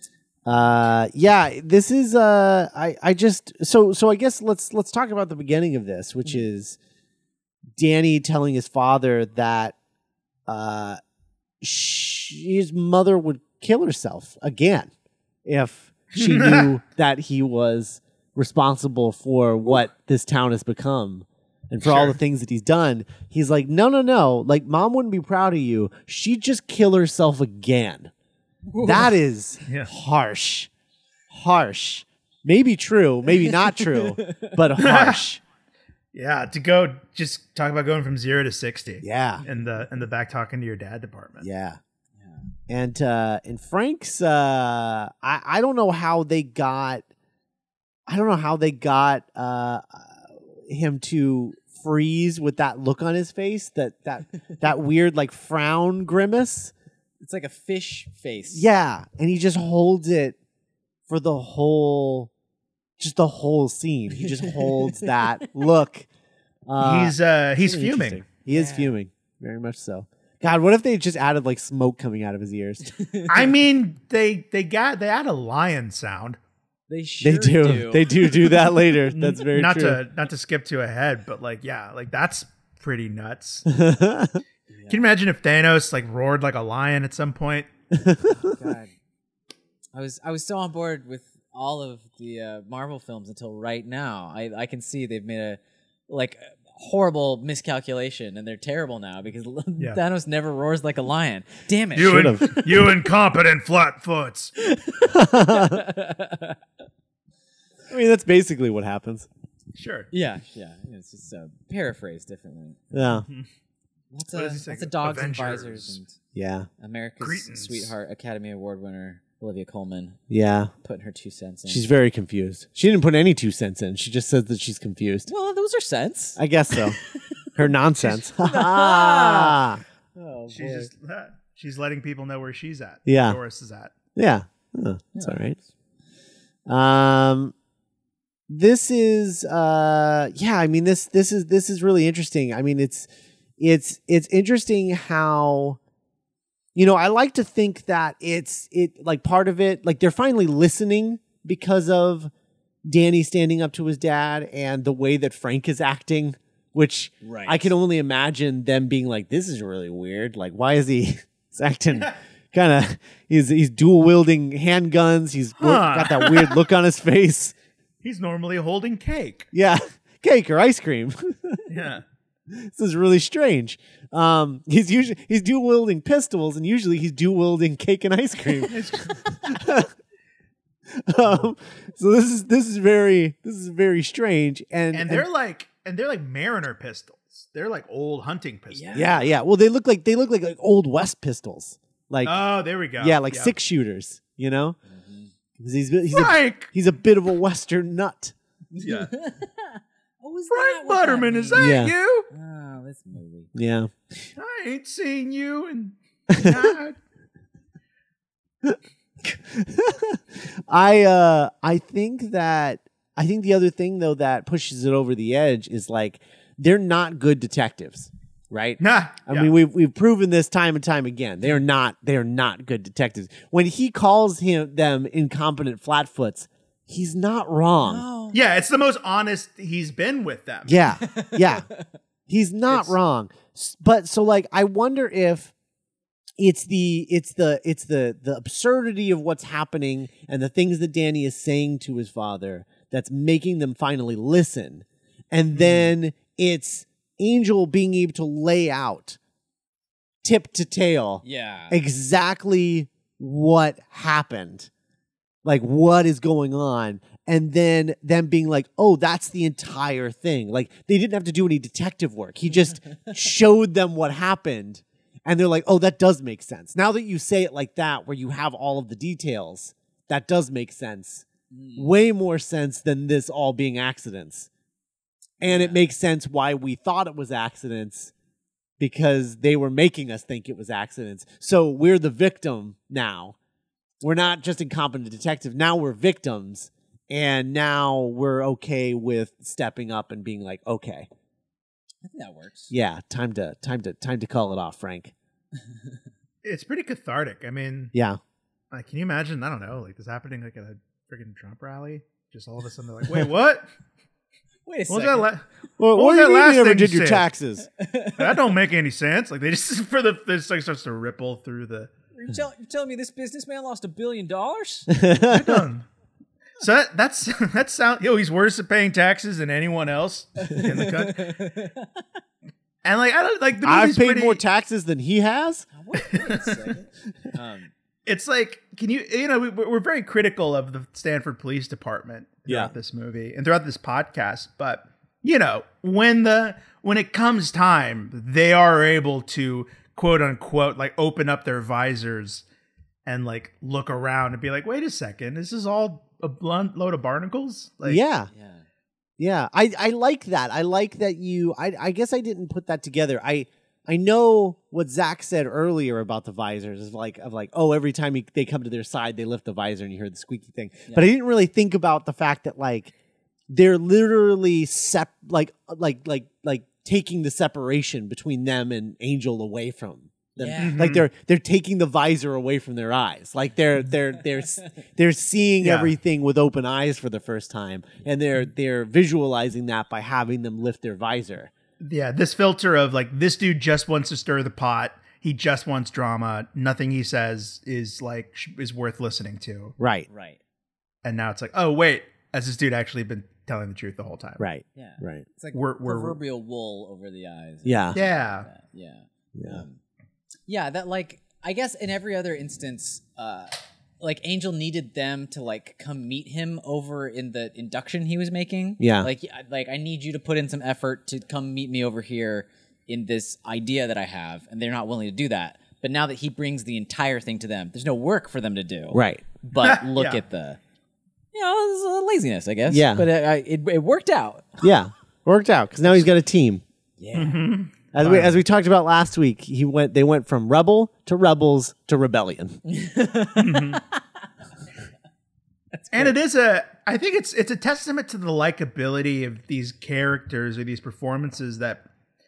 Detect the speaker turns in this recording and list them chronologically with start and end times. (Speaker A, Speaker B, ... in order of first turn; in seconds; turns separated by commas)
Speaker A: 0.4-6.8, Speaker A: 7.8-9.7, Speaker A: 10.5-11.0, Speaker A: 11.6-14.9, Speaker A: 15.4-28.1, Speaker B: 16.1-16.7, Speaker B: 21.8-22.2, Speaker C: 28.7-29.1, Speaker A: 28.8-30.7, Speaker A: 31.3-35.4, Speaker C: 33.4-34.5, Speaker B: 34.8-35.2, Speaker B: 36.1-41.5, Speaker A: 39.0-39.4, Speaker A: 41.4-41.8, Speaker A: 42.7-47.0, Speaker A: 48.1-56.7, Speaker C: 57.2-58.6, Speaker A: 58.5-60.4, Speaker A: 61.1-62.3, Speaker A: 63.0-66.1, Speaker C: 64.2-65.4, Speaker A: 66.7-72.9, Speaker B: 66.8-68.2, Speaker C: 68.5-69.0, Speaker C: 72.9-73.5, Speaker B: 73.3-76.4, Speaker C: 76.9-78.9, Speaker A: 77.2-80.0, Speaker B: 79.2-83.7, Speaker A: 83.7-84.4, Speaker C: 84.7-85.1, Speaker B: 84.9-87.7, Speaker A: 87.9-88.6, Speaker C: 88.4-88.9, Speaker C: 89.9-102.7, Speaker A: 102.0-102.5, Speaker B: 102.0-104.5, Speaker C: 104.6-106.6, Speaker A: 105.0-105.8, Speaker A: 107.9-109.3, Speaker B: 109.7-110.1, Speaker C: 110.1-113.2, Speaker A: 112.9-113.2, Speaker C: 114.1-116.2, Speaker B: 114.3-116.0, Speaker A: 116.3-116.7, Speaker C: 116.8-120.2, Speaker B: 117.2-117.9, Speaker A: 120.3-120.7, Speaker C: 120.8-121.9, Speaker A: 121.7-125.3, Speaker C: 125.3-127.5, Speaker A: 126.4-127.0, Speaker A: 127.5-129.8, Speaker C: 128.1-129.6, Speaker C: 130.1-130.9, Speaker B: 130.5-133.9, Speaker A: 133.1-133.4, Speaker A: 134.1-135.6, Speaker C: 135.2-135.6, Speaker A: 136.7-137.5, Speaker A: 138.5-145.8, Speaker A: 146.7-152.3, Speaker A: 152.8-167.5, Speaker C: 157.2-157.7, Speaker B: 165.6-166.6, Speaker B: 168.0-169.5, Speaker A: 169.5-171.7, Speaker B: 171.7-172.0, Speaker A: 172.5-179.9, Speaker B: 178.6-179.4, Speaker A: 180.9-185.3, Speaker B: 184.9-189.1, Speaker C: 188.7-189.2, Speaker A: 188.9-192.4, Speaker B: 192.2-193.5, Speaker A: 193.0-194.8, Speaker C: 194.9-195.3, Speaker A: 195.6-198.3, Speaker B: 196.1-196.7, Speaker C: 198.7-201.8, Speaker B: 198.8-199.1, Speaker B: 200.5-202.3, Speaker A: 201.5-201.9, Speaker C: 202.3-203.5, Speaker A: 203.5-204.2, Speaker B: 204.4-206.9, Speaker A: 206.3-206.7, Speaker A: 208.6-228.0, Speaker B: 218.8-219.5, Speaker C: 227.8-228.4, Speaker B: 228.3-230.8, Speaker A: 230.7-231.7, Speaker C: 231.0-231.8, Speaker A: 232.3-235.5, Speaker A: 236.4-249.2, Speaker A: 250.2-254.7, Speaker C: 251.2-251.8, Speaker A: 255.4-274.5, Speaker C: 271.5-271.9, Speaker A: 275.4-278.1, Speaker C: 275.4-275.8, Speaker A: 278.8-283.4, Speaker A: 284.0-291.1, Speaker C: 292.0-292.7, Speaker A: 292.7-295.1, Speaker C: 295.7-296.0, Speaker B: 296.4-297.9, Speaker A: 297.9-298.2, Speaker B: 298.7-303.7, Speaker C: 304.6-305.3, Speaker B: 304.9-307.3, Speaker A: 305.8-307.7, Speaker C: 307.7-308.4, Speaker B: 308.1-311.9, Speaker C: 312.1-314.9, Speaker A: 314.9-315.6, Speaker B: 315.3-315.9, Speaker B: 316.6-321.3, Speaker C: 320.4-322.0, Speaker B: 322.8-324.4, Speaker A: 323.6-325.7, Speaker C: 325.7-327.7, Speaker B: 326.0-326.6, Speaker B: 328.1-342.4, Speaker A: 332.5-332.7, Speaker B: 343.1-348.0, Speaker A: 347.8-348.3, Speaker C: 348.3-348.6, Speaker A: 349.2-362.9, Speaker A: 363.5-381.5, Speaker C: 370.4-370.9, Speaker B: 370.6-371.1, Speaker B: 375.6-375.9, Speaker B: 381.8-389.7, Speaker A: 389.8-390.1, Speaker C: 390.1-390.4, Speaker B: 391.0-394.4, Speaker A: 394.4-395.2, Speaker C: 394.7-399.8, Speaker B: 395.5-396.2, Speaker A: 397.6-398.0, Speaker B: 397.9-398.5, Speaker A: 399.3-399.6, Speaker C: 400.5-420.6, Speaker A: 408.8-409.1, Speaker A: 418.9-419.2, Speaker B: 419.6-420.2, Speaker C: 421.3-424.6, Speaker A: 422.7-423.1, Speaker A: 424.6-426.6, Speaker C: 427.0-427.4, Speaker B: 427.1-428.4, Speaker A: 427.9-432.6, Speaker C: 432.6-434.0, Speaker B: 433.3-433.8, Speaker C: 435.7-436.1, Speaker B: 435.9-441.9